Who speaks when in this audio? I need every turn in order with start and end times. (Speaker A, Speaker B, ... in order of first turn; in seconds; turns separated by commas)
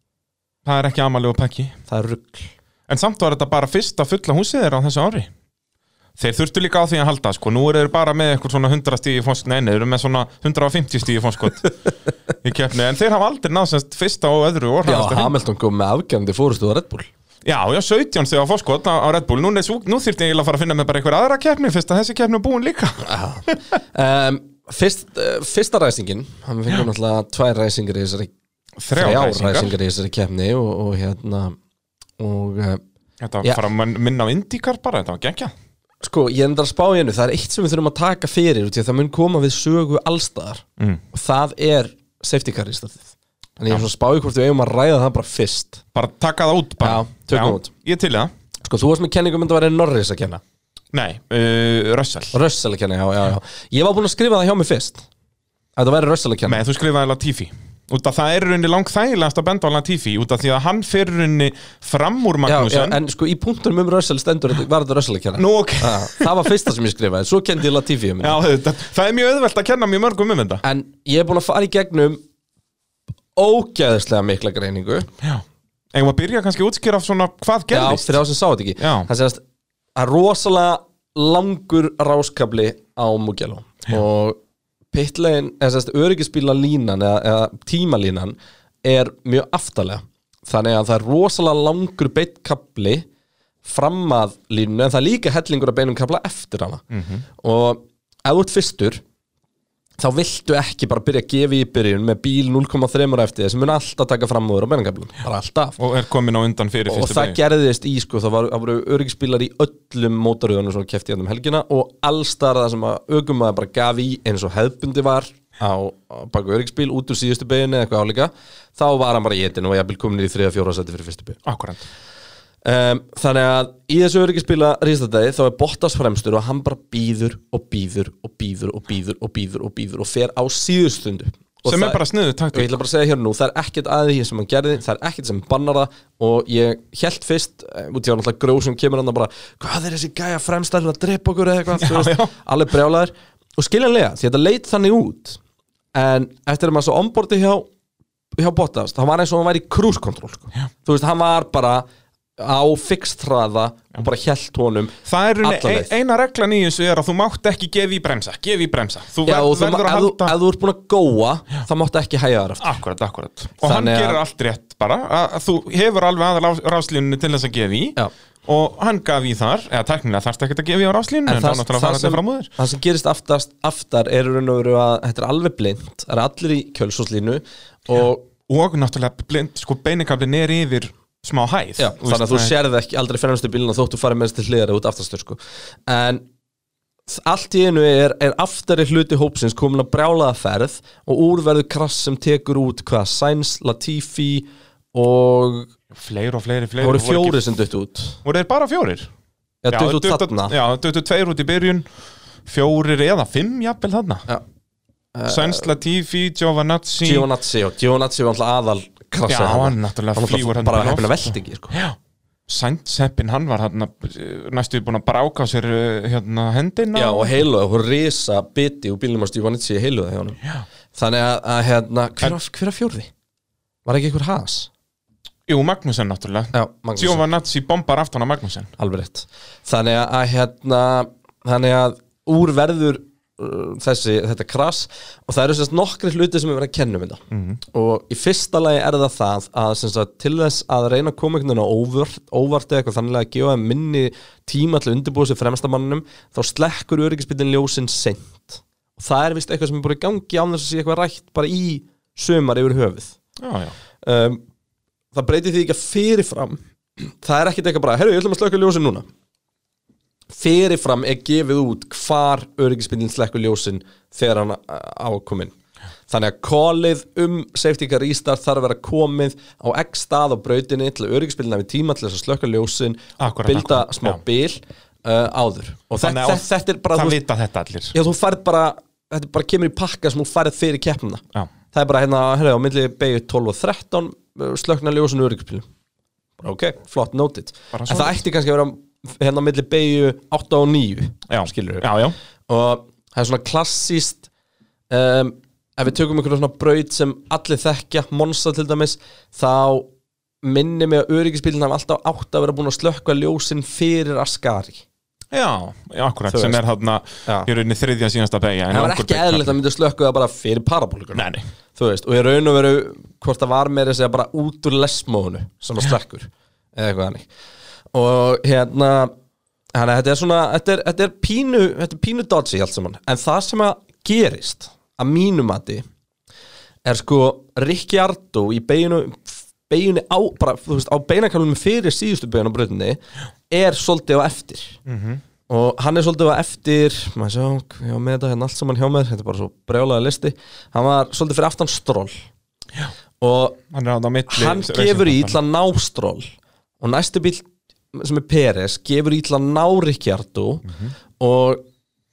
Speaker A: 0.6-1.8, Speaker B: 1.9-2.5, Speaker A: 2.9-5.3, Speaker A: 6.2-11.6, Speaker A: 12.4-15.3, Speaker B: 14.8-17.1, Speaker A: 17.4-23.1, Speaker B: 23.0-28.3, Speaker A: 28.8-29.7, Speaker B: 28.9-31.6, Speaker B: 32.2-32.8, Speaker A: 33.2-35.5, Speaker B: 36.0-45.8, Speaker A: 45.9-48.3, Speaker B: 46.8-47.7, Speaker B: 48.6-50.4, Speaker A: 50.9-52.3, Speaker B: 52.3-55.0, Speaker B: 55.8-56.6, Speaker A: 56.5-63.0, Speaker B: 62.5-68.4, Speaker A: 65.3-66.3, Speaker A: 68.2-70.6, Speaker B: 70.6-72.2, Speaker B: 73.3-75.1, Speaker A: 75.2-78.2, Speaker B: 77.7-79.4, Speaker A: 78.8-79.1, Speaker B: 79.9-84.4, Speaker B: 84.9-93.0, Speaker B: 93.6-96.8, Speaker A: 96.9-97.2, Speaker B: 97.4-99.0, Speaker B: 100.0-105.8, Speaker A: 105.8-107.4, Speaker B: 106.9-121.4, Speaker A: 121.4-121.8, Speaker B: 122.6-145.4, Speaker A: 131.6-132.7, Speaker A: 141.7-142.3, Speaker B: 145.9-147.7, Speaker B: 148.4-151.8, Speaker B: 152.4-155.9, Speaker A: 155.1-160.3, Speaker B: 159.2-162.7, Speaker A: 162.6-172.5, Speaker B: 163.6-164.2, Speaker B: 171.2-178.2, Speaker A: 177.9-182.5, Speaker B: 181.8-186.2, Speaker B: 187.1-195.7, Speaker A: 195.9-197.4, Speaker B: 196.8-198.2, Speaker A: 198.2-199.1, Speaker B: 199.6-200.5, Speaker A: 199.7-201.9, Speaker A: 202.4-204.2, Speaker B: 205.1-205.7, Speaker A: 205.3-207.3, Speaker B: 207.0-211.8, Speaker A: 209.3-212.0, Speaker A: 212.5-217.4, Speaker B: 216.9-220.4, Speaker B: 220.9-223.1, Speaker B: 223.8-224.7, Speaker A: 225.5-228.7, Speaker B: 226.5-227.2, Speaker B: 228.8-253.1, Speaker A: 237.3-237.6, Speaker A: 253.4-253.7, Speaker B: 254.0-254.4, Speaker B: 255.1-259.1, Speaker B: 260.3-265.5, Speaker B: 266.1-277.2, Speaker A: 273.2-274.2, Speaker A: 276.0-277.9, Speaker B: 277.9-285.6, Speaker B: 286.4-291.9, Speaker A: 287.7-288.2, Speaker A: 291.3-292.1, Speaker B: 292.5-294.2, Speaker B: 294.9-299.9, Speaker B: 300.4-304.8, Speaker A: 305.3-309.6, Speaker B: 306.3-306.6, Speaker B: 307.2-307.5, Speaker B: 308.7-317.2, Speaker A: 311.1-311.4, Speaker B: 317.9-319.1, Speaker B: 319.7-325.8, Speaker B: 326.8-334.8, Speaker A: 334.9-335.2, Speaker B: 335.5-342.2, Speaker B: 343.2-343.6, Speaker A: 343.7-345.4, Speaker B: 344.3-346.3, Speaker B: 346.8-350.6, Speaker A: 350.6-350.9, Speaker B: 351.2-351.6